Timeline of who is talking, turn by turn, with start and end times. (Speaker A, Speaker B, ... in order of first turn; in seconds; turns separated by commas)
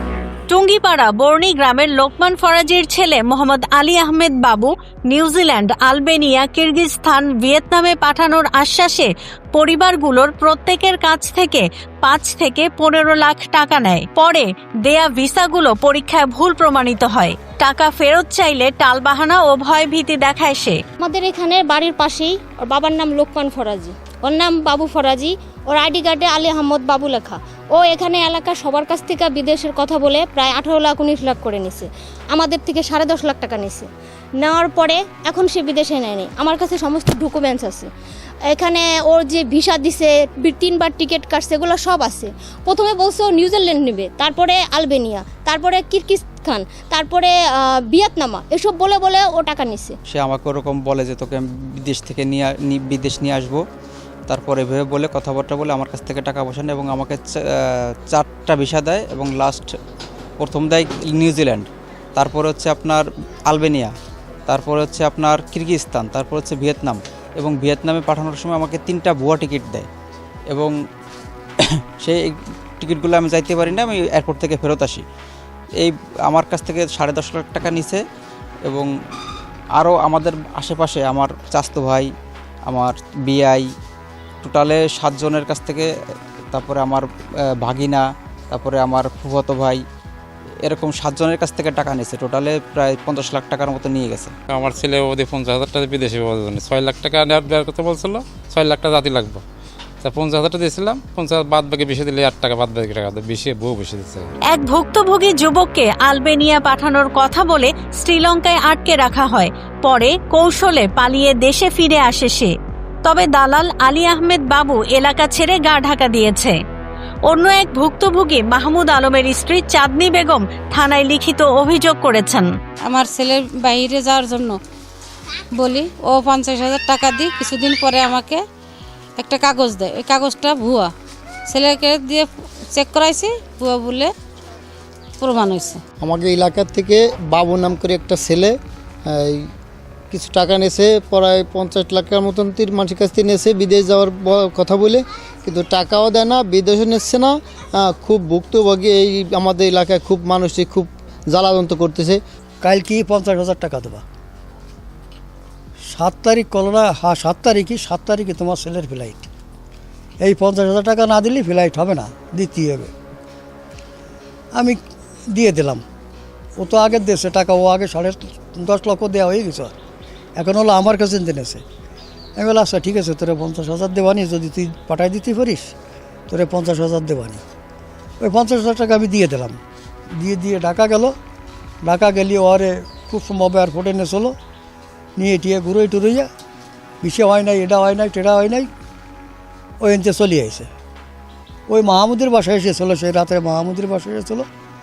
Speaker A: 0.5-20.8, Speaker B: 21.0-37.9, Speaker B: 38.5-50.0, Speaker C: 50.1-53.6, Speaker C: 54.3-59.7, Speaker C: 60.4-64.0, Speaker C: 64.5-69.9, Speaker C: 70.5-70.7, Speaker C: 71.6-75.0, Speaker C: 75.8-78.0, Speaker C: 78.7-78.9, Speaker C: 79.7-82.1, Speaker C: 82.7-83.7, Speaker C: 84.4-85.9, Speaker C: 86.5-87.1, Speaker C: 87.6-89.8, Speaker C: 90.6-94.3, Speaker D: 94.5-99.4, Speaker D: 100.0-104.3, Speaker A: 104.5-112.5, Speaker A: 113.0-116.6, Speaker A: 117.3-122.5, Speaker E: 122.8-124.6, Speaker E: 125.5-128.4, Speaker E: 129.2-130.9, Speaker E: 131.5-134.1, Speaker E: 135.2-135.8, Speaker F: 136.0-138.6, Speaker F: 139.2-139.4, Speaker F: 140.1-152.2, Speaker G: 152.6-154.0, Speaker G: 155.9-159.3, Speaker G: 160.2-162.9, Speaker G: 165.3-165.8, Speaker G: 166.6-169.7, Speaker G: 170.4-171.6, Speaker G: 172.4-175.7, Speaker G: 176.3-177.4, Speaker G: 178.2-179.6, Speaker G: 180.2-181.2, Speaker G: 181.8-184.3, Speaker G: 185.2-186.3, Speaker G: 187.0-188.7, Speaker G: 189.8-190.7, Speaker G: 191.7-194.5